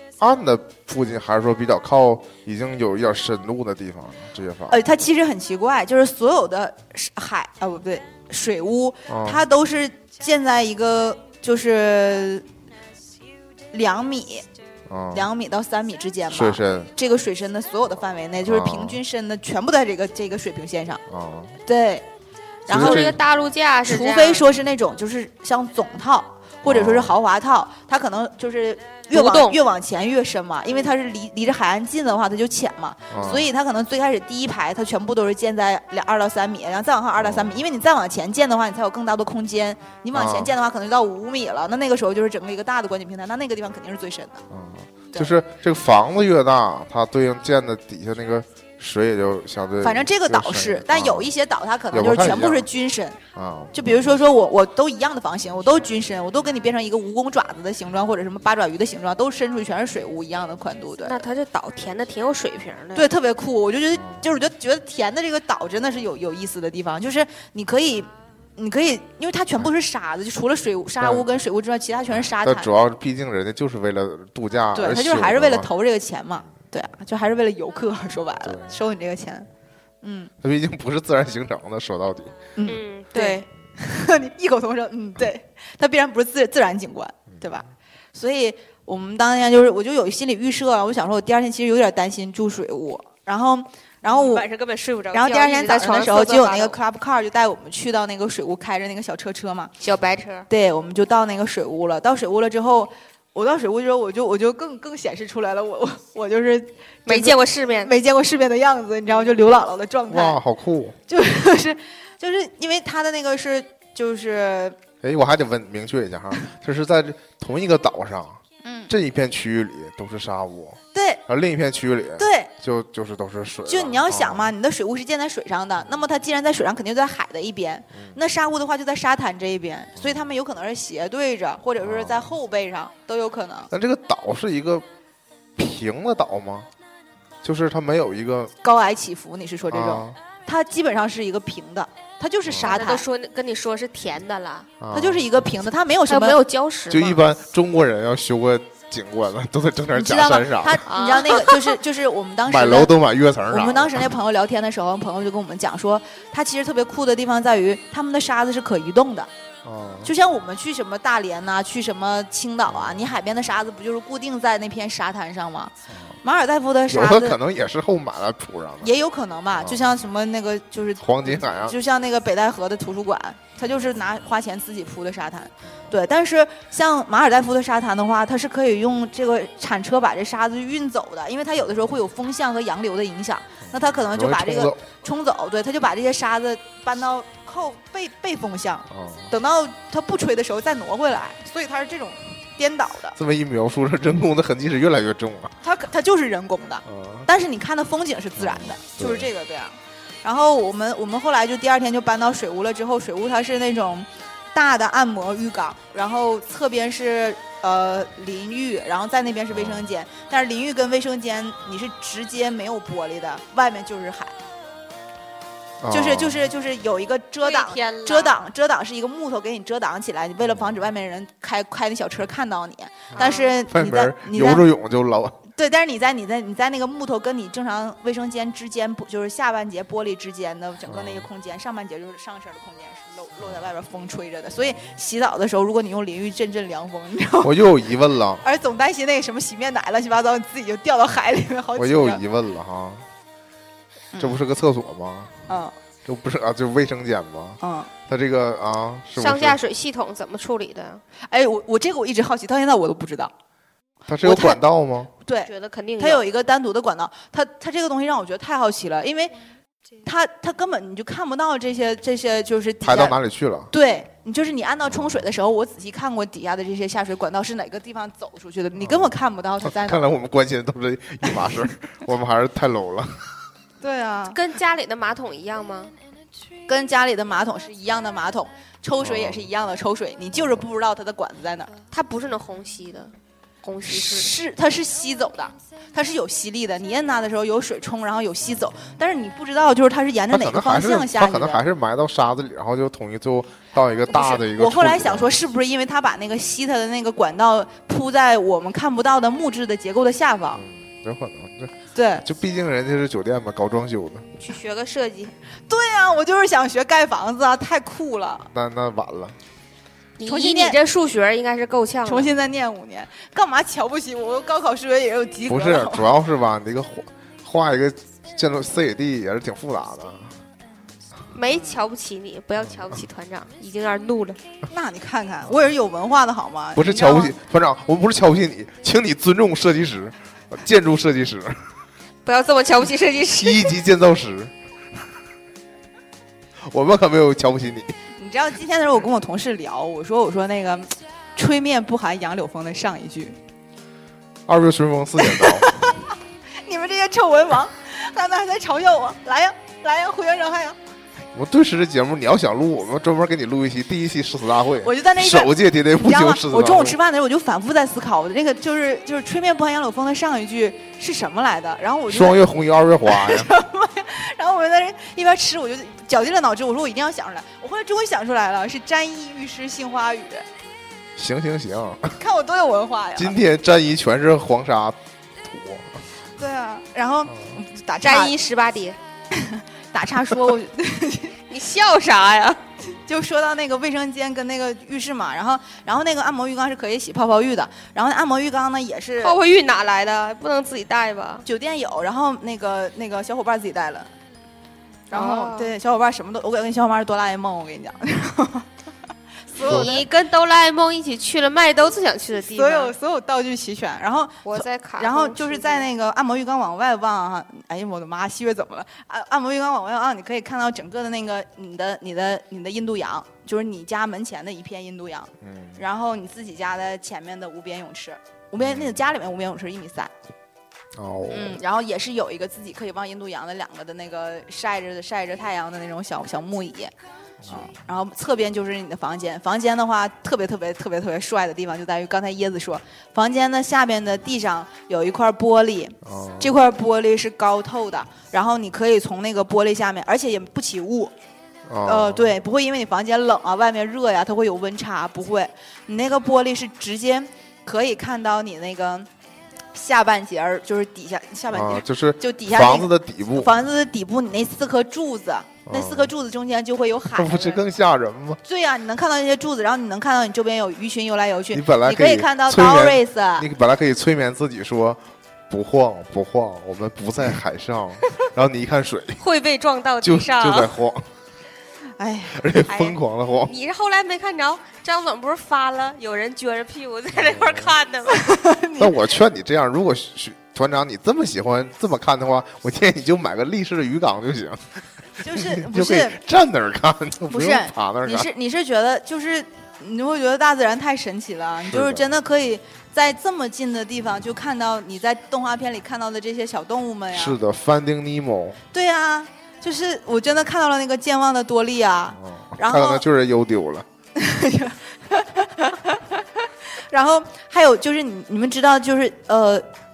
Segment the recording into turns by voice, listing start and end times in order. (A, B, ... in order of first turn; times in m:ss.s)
0:00.2-0:04.8 A
0:04.7-0:12.4 B
0:09.1-0:09.4 A
0:13.7-0:14.4 B
0:14.9-0:15.3 A
0:15.1-0:21.0 B
0:16.3-0:16.9 A
0:18.4-0:19.0 A
0:21.1-0:21.6 A
0:21.6-0:22.0 B
0:22.7-0:23.0 B
0:22.7-0:23.2 A
0:22.7-0:24.5 C
0:23.8-0:44.4 B
0:26.6-0:27.2 A
0:29.1-0:29.6 C
0:33.1-0:33.4 A
0:37.2-0:37.6 A
0:40.1-0:40.5 A
0:44.5-0:51.3 A
0:49.8-0:53.2 B
0:51.9-0:52.7 A
0:53.3-0:54.2 A
0:53.7-1:01.2 B
1:01.0-1:03.1 C
1:02.9-1:12.7 B
1:04.0-1:04.2 A
1:11.0-1:11.2 A
1:12.1-1:15.7 A
1:14.7-1:19.5 B
1:18.4-1:18.7 A
1:20.0-1:20.3 B
1:20.4-1:22.3 A
1:22.6-1:34.5 B
1:22.6-1:23.4 C
1:34.0-1:36.8 C
1:35.1-1:39.7 B
1:39.8-1:40.5 C
1:40.5-1:50.4 B
1:47.0-1:47.9 C
1:50.1-1:51.0 A
1:51.1-1:54.8 B
1:55.0-2:04.5 A
1:58.6-1:58.9 B
2:00.9-2:01.2 B
2:02.2-2:02.5 B
2:03.7-2:13.7 B
2:10.0-2:10.2 A
2:11.8-2:12.3 A
2:13.7-2:14.8 A
2:15.6-2:16.7 A
2:17.4-2:18.5 A
2:18.6-2:23.0 B
2:19.7-2:20.2 A
2:22.5-2:22.8 A
2:22.6-2:24.7 C
2:24.8-2:25.4 A
2:24.9-2:26.4 B
2:26.1-2:27.2 C
2:26.9-2:30.8 A
2:29.9-2:32.9 B
2:30.9-2:31.7 C
2:32.4-2:34.1 A
2:33.5-2:39.3 B
2:39.6-2:40.1 A
2:40.0-2:47.4 B
2:42.7-2:43.1 A
2:45.9-2:46.2 A
2:46.9-2:48.9 A
2:48.8-3:13.2 B
2:49.5-2:49.9 A
2:51.0-2:51.8 A
3:03.6-3:04.8 A
3:08.9-3:09.3 A
3:13.2-3:15.5 A
3:15.6-3:34.3 B
3:16.8-3:17.3 A
3:18.4-3:19.3 A
3:29.5-3:29.9 A
3:35.8-3:36.5 A
3:35.9-3:44.6 B
3:37.4-3:38.4 C
3:40.4-3:40.8 A
3:43.1-3:45.4 A
3:43.2-3:43.5 C
3:45.5-3:57.6 B
3:50.9-3:51.3 A
3:57.4-3:58.4 A
3:58.4-4:02.2 B
4:01.8-4:03.1 A
4:04.1-4:04.4 B
4:04.2-4:05.3 A
4:05.5-4:05.7 B
4:06.0-4:09.6 A
4:07.6-4:07.9 B
4:09.2-4:11.0 C
4:11.2-4:13.3 B
4:14.1-4:15.1 A
4:14.2-4:14.6 B
4:15.2-4:19.3 B
4:15.4-4:16.2 C
4:20.0-4:23.2 B
4:22.8-4:23.7 A
4:23.7-4:30.1 B
4:24.9-4:25.2 A
4:28.8-4:33.2 A
4:33.8-4:34.4 B
4:34.3-4:35.9 C
4:36.7-4:41.7 B
4:39.0-4:39.4 A
4:40.4-4:40.6 A
4:41.9-4:44.3 C
4:43.8-4:51.6 B
4:50.3-4:55.3 A
4:54.1-5:00.6 B
5:00.5-5:04.3 A
5:01.9-5:02.2 B
5:04.4-5:05.3 C
5:05.7-5:08.5 B
5:08.5-5:09.4 A
5:10.2-5:12.3 C
5:10.2-5:10.8 B
5:12.0-5:16.1 B
5:15.5-5:20.3 A
5:21.3-5:24.4 C
5:21.5-5:21.8 B
5:24.7-5:27.3 B
5:26.7-5:31.6 A
5:32.2-5:33.8 C
5:33.3-5:34.5 A
5:36.7-5:37.9 A
5:38.2-5:43.4 B
5:44.5-5:45.6 A
5:45.2-5:46.1 B
5:46.6-5:50.8 B
5:51.3-5:57.0 A
5:54.8-6:02.4 B
6:02.1-6:03.5 A
6:03.0-6:10.4 B
6:11.2-6:12.2 A
6:12.2-6:13.4 B
6:13.2-6:15.9 A
6:16.4-6:18.3 B
6:18.0-6:19.0 C
6:19.3-6:21.3 B
6:21.5-6:22.6 C
6:22.9-6:29.4 B
6:29.2-6:31.4 C
6:31.4-6:34.1 B
6:35.1-6:38.6 B
6:35.1-6:35.7 C
6:39.5-6:40.0 B
6:39.6-6:42.9 C
6:39.6-6:39.9 A
6:42.3-7:00.1 B
6:44.4-6:45.9 C
6:55.4-6:55.8 A
6:58.6-6:59.0 A
7:01.0-7:01.6 A
7:01.3-7:06.9 B
7:07.4-7:07.7 A
7:07.5-7:21.1 B
7:16.0-7:16.5 A
7:21.7-7:22.4 A
7:21.8-7:29.1 B
7:29.7-7:37.6 B
7:31.5-7:33.5 A
7:35.7-7:36.1 A
7:37.1-7:38.4 A
7:38.4-7:43.5 B
7:41.5-7:49.2 A
7:49.2-7:50.7 C
7:50.0-7:51.1 A
7:52.0-7:52.8 B
7:52.3-7:53.5 A
7:53.4-7:58.4 C
7:57.1-7:57.7 A
7:58.1-7:58.9 B
7:58.8-8:04.6 A
8:05.2-8:08.3 A
8:05.2-8:06.2 B
8:07.3-8:17.4 B
8:11.6-8:12.2 A
8:17.1-8:18.6 A
8:18.7-8:23.0 B
8:22.2-8:23.9 A
8:24.2-8:26.2 B
8:26.9-8:29.6 B